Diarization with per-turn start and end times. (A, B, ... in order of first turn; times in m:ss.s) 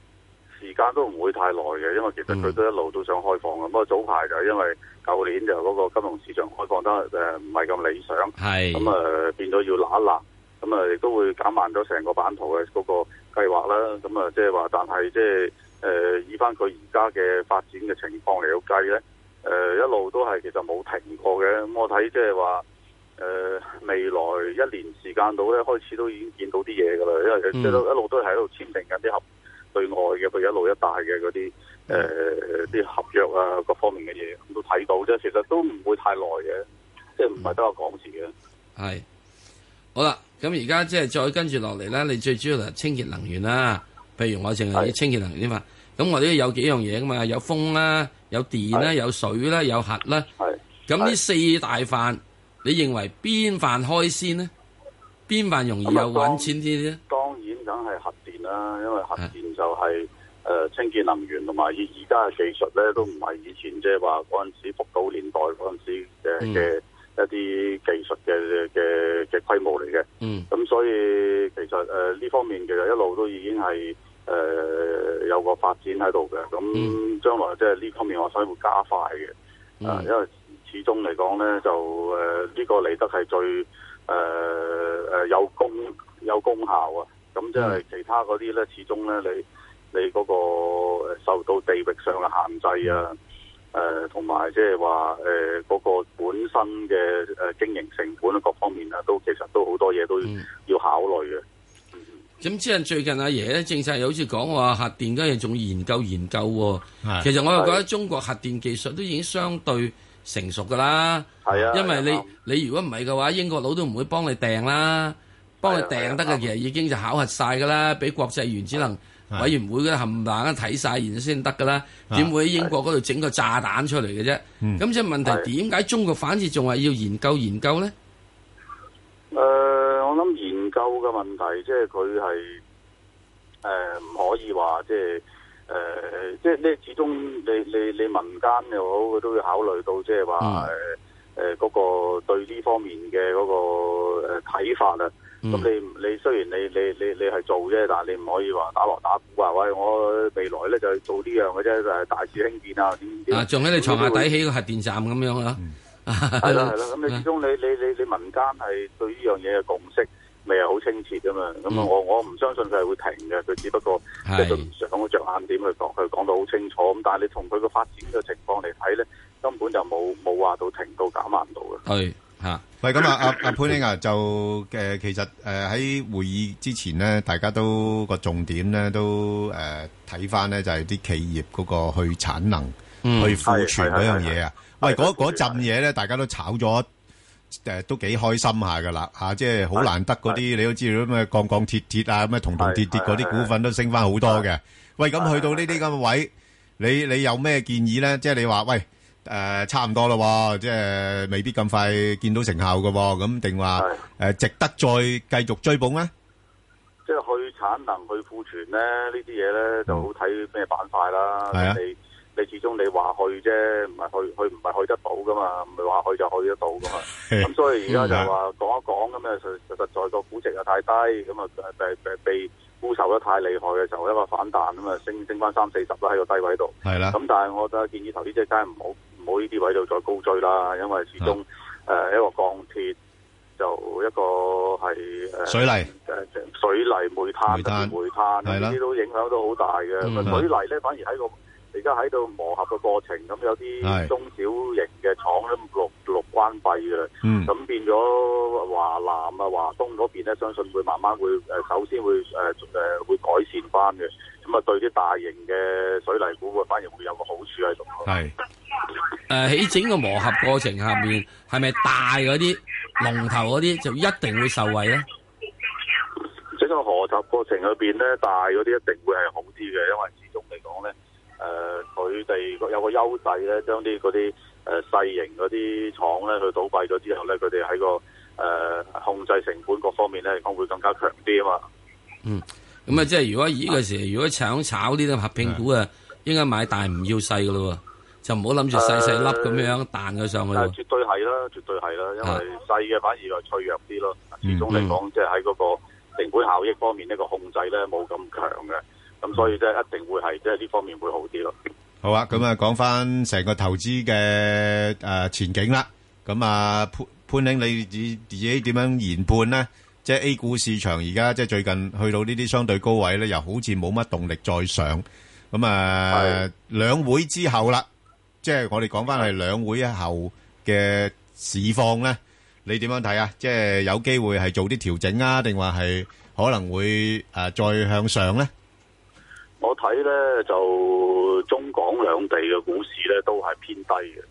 0:00.6-0:22.6 A
0:02.3-0:02.6 B
0:08.4-0:08.9 B
0:23.2-0:29.2 A
0:27.5-0:27.8 B
0:29.7-0:36.6 A
0:37.2-0:38.3 A
0:38.8-0:39.0 B
0:39.9-0:50.3 B
0:50.4-0:51.1 A
0:50.9-0:54.5 B
0:55.3-0:57.0 B
0:55.8-0:56.5 A
0:57.1-1:19.3 A
1:06.4-1:06.7 B
1:10.2-1:10.5 B
1:19.8-1:20.1 B
1:19.8-1:33.1 A
1:33.7-1:41.4 A
1:42.4-2:07.9 B
1:47.5-1:47.8 A
1:51.4-1:52.3 A
1:51.5-1:51.8 C
1:55.6-1:56.4 A
2:09.3-2:12.6 A
2:13.6-2:34.3 A
2:20.4-2:20.7 B
2:33.3-2:37.2 B
2:36.4-2:51.8 A
2:44.2-2:44.7 B
2:51.8-2:52.6 B
2:52.8-3:06.9 C
3:03.0-3:03.4 B
3:03.4-3:05.6 A
3:07.6-3:26.1 C
3:09.8-3:10.4 A
3:12.6-3:13.5 A
3:15.2-3:15.7 A
3:27.0-3:52.9 A
3:31.5-3:31.8 C
3:37.2-3:38.3 C
3:46.8-3:47.2 C
3:53.6-4:18.1 A
3:55.5-3:55.9 C
3:57.5-3:58.8 C
4:00.0-4:00.5 B
4:03.8-4:04.1 C
4:07.2-4:07.5 C
4:18.0-4:18.3 C
4:19.3-4:25.0 B
4:26.6-4:41.6 A
4:42.2-4:50.7 B
4:48.7-4:49.7 A
4:50.5-5:01.5 A
4:54.7-4:55.0 B
5:02.0-5:17.8 C
5:16.1-5:16.4 A
5:18.4-5:28.5 C
5:29.6-5:34.2 A